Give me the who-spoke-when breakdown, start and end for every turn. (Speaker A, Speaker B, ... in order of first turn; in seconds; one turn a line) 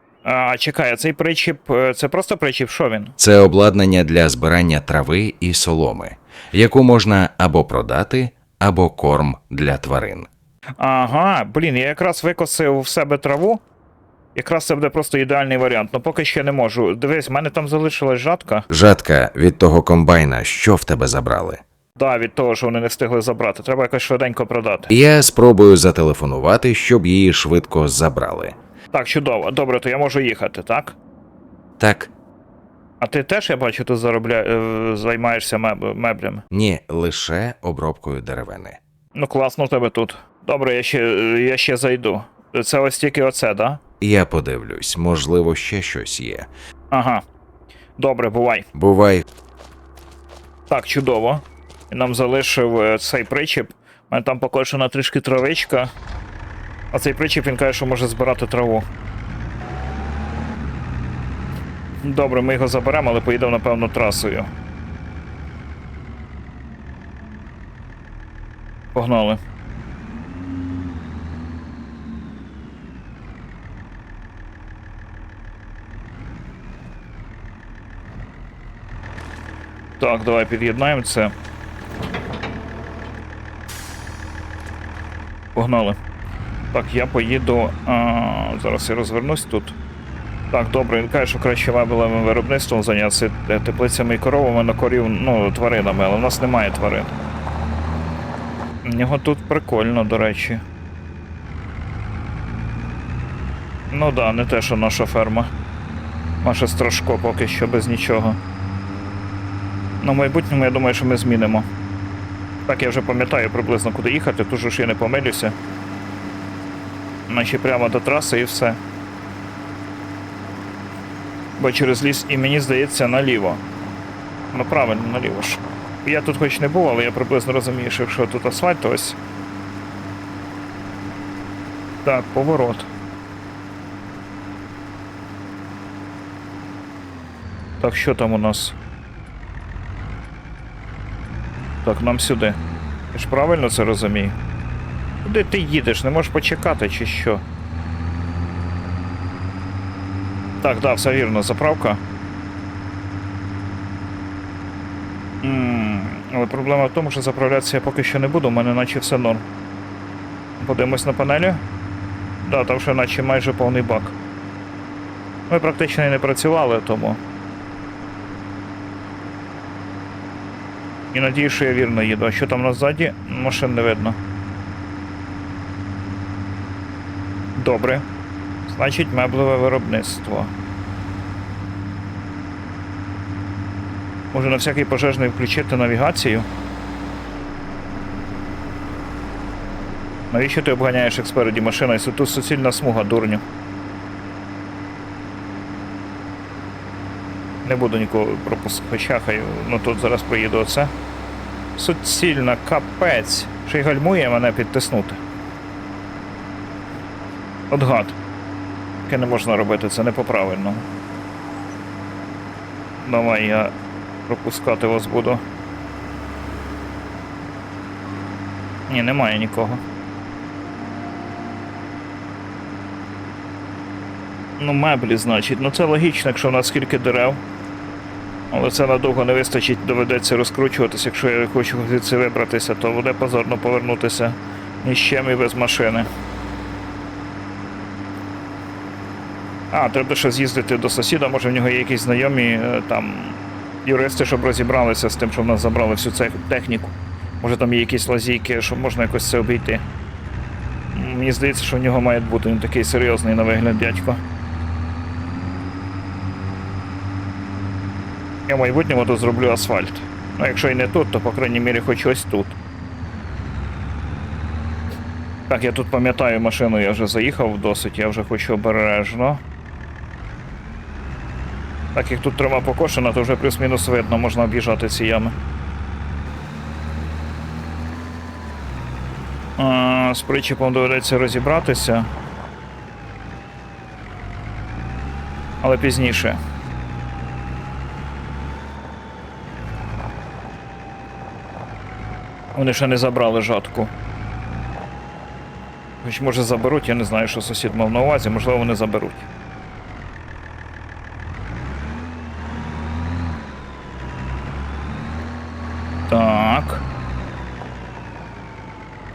Speaker A: 0.2-3.1
Speaker B: 3.2-10.3
Speaker A: 10.8-13.6
Speaker A: 14.3-18.6
Speaker B: 18.7-21.6
Speaker A: 22.0-24.9
Speaker B: 24.9-28.5
Speaker A: 28.9-31.0
Speaker B: 31.8-32.1
Speaker A: 33.0-36.4
Speaker B: 36.5-38.8
Speaker A: 39.1-43.8
Speaker B: 44.0-46.5
Speaker A: 46.9-47.2
Speaker A: 48.0-48.7
Speaker B: 48.7-49.2
Speaker A: 50.7-55.9
Speaker A: 56.9-58.9
Speaker A: 62.0-64.5
Speaker A: 68.9-69.4
Speaker A: 80.0-81.3
Speaker A: 85.5-86.0
Speaker A: 86.7-89.8
Speaker A: 90.5-97.1
Speaker A: 98.8-100.6
Speaker A: 103.9-105.5
Speaker A: 106.4-108.4
Speaker A: 110.0-111.7
Speaker A: 112.7-115.5
Speaker A: 117.3-118.8
Speaker A: 121.6-123.6
Speaker A: 124.5-129.2
Speaker A: 132.0-132.9
Speaker A: 137.8-138.8
Speaker A: 141.8-142.6
Speaker A: 143.1-144.3
Speaker A: 145.2-147.4
Speaker A: 150.6-152.0
Speaker A: 155.4-159.4
Speaker A: 160.6-161.6
Speaker A: 162.4-164.2
Speaker A: 165.5-167.2
Speaker A: 171.1-174.2
Speaker A: 177.5-178.0
Speaker A: 178.7-180.5
Speaker A: 184.3-186.4
Speaker A: 190.3-193.4
Speaker A: 197.6-200.9
Speaker A: 201.7-205.2
Speaker A: 207.7-208.2
Speaker A: 209.1-210.8
Speaker A: 213.0-213.7
Speaker A: 214.3-215.4
Speaker A: 218.9-219.8
Speaker A: 224.6-227.4
Speaker A: 228.5-236.1
Speaker A: 239.7-249.8
Speaker A: 250.9-254.2
Speaker A: 258.5-262.6
Speaker A: 265.5-269.4
Speaker A: 271.9-275.3
Speaker A: 279.6-282.1
Speaker A: 285.6-286.4
Speaker A: 292.5-293.9
Speaker A: 296.0-299.3
Speaker A: 306.1-306.8